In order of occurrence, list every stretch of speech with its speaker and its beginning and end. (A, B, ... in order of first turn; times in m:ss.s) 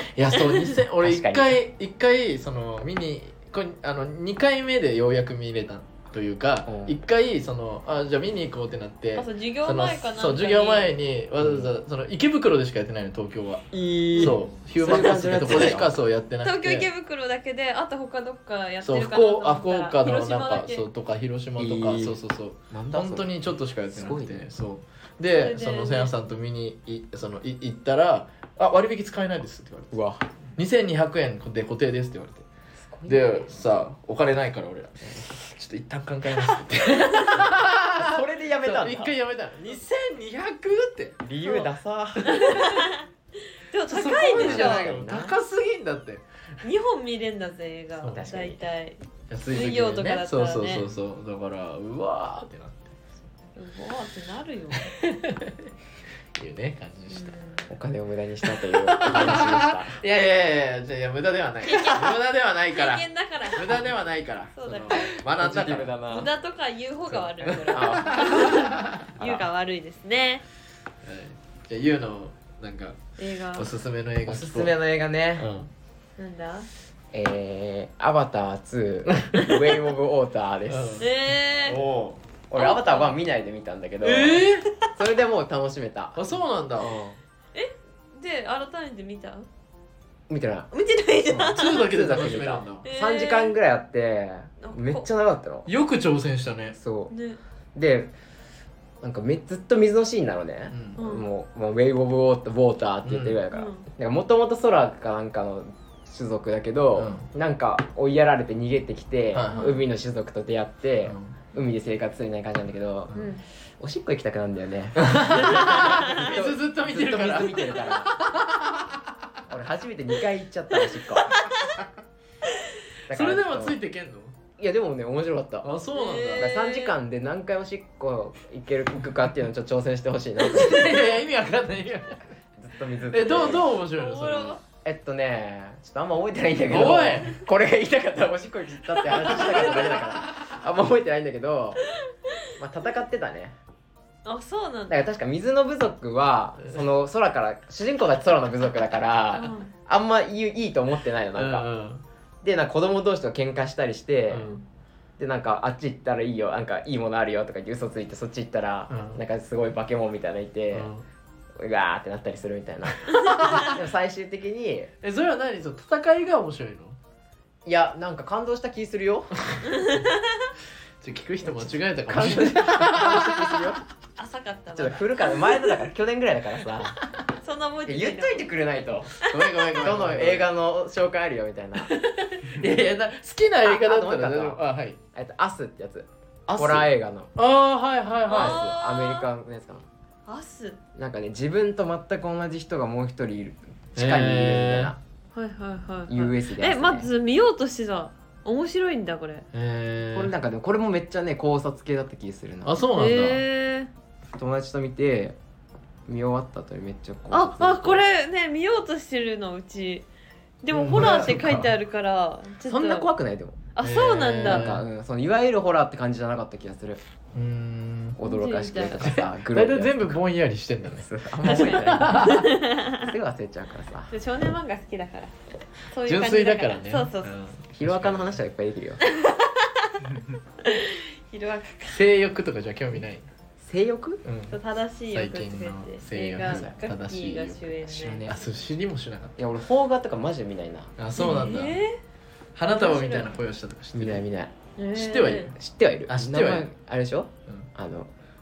0:00.1-0:16.9 A
0:01.0-0:01.6 B
0:06.7-0:07.0 B
0:09.2-0:10.9 C
0:11.4-0:11.7 B
0:13.7-0:15.9 B
0:16.4-0:20.9 C
0:18.8-0:30.0 A
0:21.6-0:22.2 B
0:22.7-0:23.4 B
0:23.9-0:24.5 B
0:25.3-0:26.1 C
0:29.9-0:30.2 B
0:30.6-0:32.5 A
0:32.8-0:33.5 B
0:33.1-0:41.2 A
0:37.9-0:39.2 B
0:41.2-0:42.6 B
0:41.4-0:41.7 C
0:42.3-0:43.0 C
0:43.6-0:45.0 C
0:43.9-0:46.3 A
0:44.3-0:45.4 B
0:46.6-0:50.9 C
0:48.0-0:48.3 A
0:48.1-0:48.6 B
0:49.3-0:53.0 A
0:53.6-0:54.9 C
0:54.9-0:55.7 A
0:56.4-0:57.3 A
0:57.1-0:57.7 C
0:57.7-1:00.0 B
0:58.4-1:06.0 A
1:01.6-1:02.2 C
1:02.7-1:03.8 C
1:04.5-1:05.1 C
1:05.1-1:06.3 B
1:06.1-1:10.4 C
1:07.1-1:09.1 A
1:07.7-1:08.6 B
1:09.2-1:09.4 B
1:11.0-1:13.0 A
1:13.2-1:13.7 C
1:13.6-1:14.7 A
1:14.3-1:15.5 B
1:15.4-1:15.7 A
1:16.2-1:16.7 C
1:17.1-1:21.0 B
1:20.7-1:21.1 A
1:21.0-1:21.8 C
1:21.6-1:22.2 A
1:22.5-1:26.3 B
1:22.6-1:23.2 C
1:24.0-1:24.7 A
1:26.2-1:27.0 A
1:26.8-1:27.2 B
1:27.5-1:29.5 C
1:30.3-1:30.7 B
1:30.7-1:31.9 C
1:31.3-1:35.7 B
1:31.5-1:32.8 A
1:32.8-1:33.6 C
1:34.6-1:35.1 C
1:35.7-1:36.8 A
1:36.8-1:37.1 B
1:37.1-1:37.4 C
1:37.8-1:38.1 B
1:39.0-1:53.2 B
1:40.7-1:41.0 A
1:41.0-1:41.3 C
1:43.0-1:43.4 A
1:43.5-1:43.9 C
1:47.0-1:47.3 A
1:49.3-1:49.7 A
1:49.5-1:49.8 C
1:51.0-1:51.4 A
1:53.1-1:53.4 C
1:53.8-1:58.2 B
1:55.0-1:59.0 A
1:55.3-1:56.0 C
1:59.5-2:01.6 B
2:03.1-2:03.8 B
2:03.1-2:04.4 A
2:04.6-2:05.7 B
2:05.6-2:06.5 A
2:05.9-2:06.9 C
2:06.4-2:10.9 B
2:10.4-2:12.2 A
2:12.6-2:13.7 B
2:13.1-2:14.6 A
2:13.9-2:14.6 C
2:14.8-2:21.8 B
2:16.7-2:17.4 A
2:19.4-2:20.0 A
2:22.6-2:23.6 B
2:24.2-2:25.0 C
2:24.9-2:31.7 B
2:29.4-2:29.7 C
2:31.4-2:32.0 A
2:32.4-2:34.5 B
2:34.3-2:34.6 A
2:35.2-2:40.9 B
2:38.9-2:39.2 A
2:40.7-2:41.0 A
2:41.6-2:44.9 B
2:43.1-2:43.8 A
2:45.0-2:47.0 A
2:47.7-2:49.3 B
2:49.7-2:50.5 C
2:51.0-2:53.7 A
2:51.4-2:53.8 B
2:54.2-2:55.6 C
2:54.8-2:57.0 B
2:57.4-2:58.5 C
2:57.9-3:01.9 B
2:59.2-2:59.5 C
2:59.2-3:00.5 A
3:01.8-3:05.0 A
3:03.6-3:04.6 B
3:05.1-3:07.3 B
3:06.5-3:08.7 A
3:08.3-3:09.3 C
3:08.3-3:09.9 B
3:10.3-3:10.8 C
3:11.0-3:15.0 B
3:14.0-3:14.9 A
3:15.3-3:19.5 C
3:16.1-3:17.1 B
3:19.5-3:20.3 A
3:20.1-3:22.8 B
3:22.6-3:23.4 A
3:22.9-3:23.9 C
3:24.3-3:25.4 B
3:26.1-3:28.0 B
3:27.3-3:30.0 C
3:30.6-3:33.1 C
3:30.7-3:31.7 A
3:32.7-3:33.6 B
3:33.8-3:34.6 C
3:33.8-3:34.9 A
3:34.4-3:37.0 B
3:37.3-3:38.2 A
3:38.2-3:40.2 B
3:38.2-3:39.2 C
3:39.0-3:42.4 A
3:40.9-3:44.1 B
3:41.4-3:43.1 C
3:44.1-3:45.3 C
3:45.9-3:47.3 C
3:46.1-3:48.4 A
3:47.7-3:49.0 B
3:49.1-3:50.0 C
3:50.6-3:52.0 C
3:51.9-3:53.3 A
3:53.6-3:54.2 B
3:54.2-3:54.6 A
3:54.5-3:58.3 C
3:55.1-3:59.4 A
3:56.4-3:56.7 B
3:57.9-3:58.4 B
3:59.4-4:01.4 B
4:01.0-4:01.8 A
4:01.2-4:02.0 C
4:02.6-4:04.2 A
4:02.7-4:03.3 C
4:04.0-4:04.5 B
4:04.8-4:05.5 C
4:04.9-4:05.6 A
4:05.6-4:08.1 B
4:06.1-4:06.7 A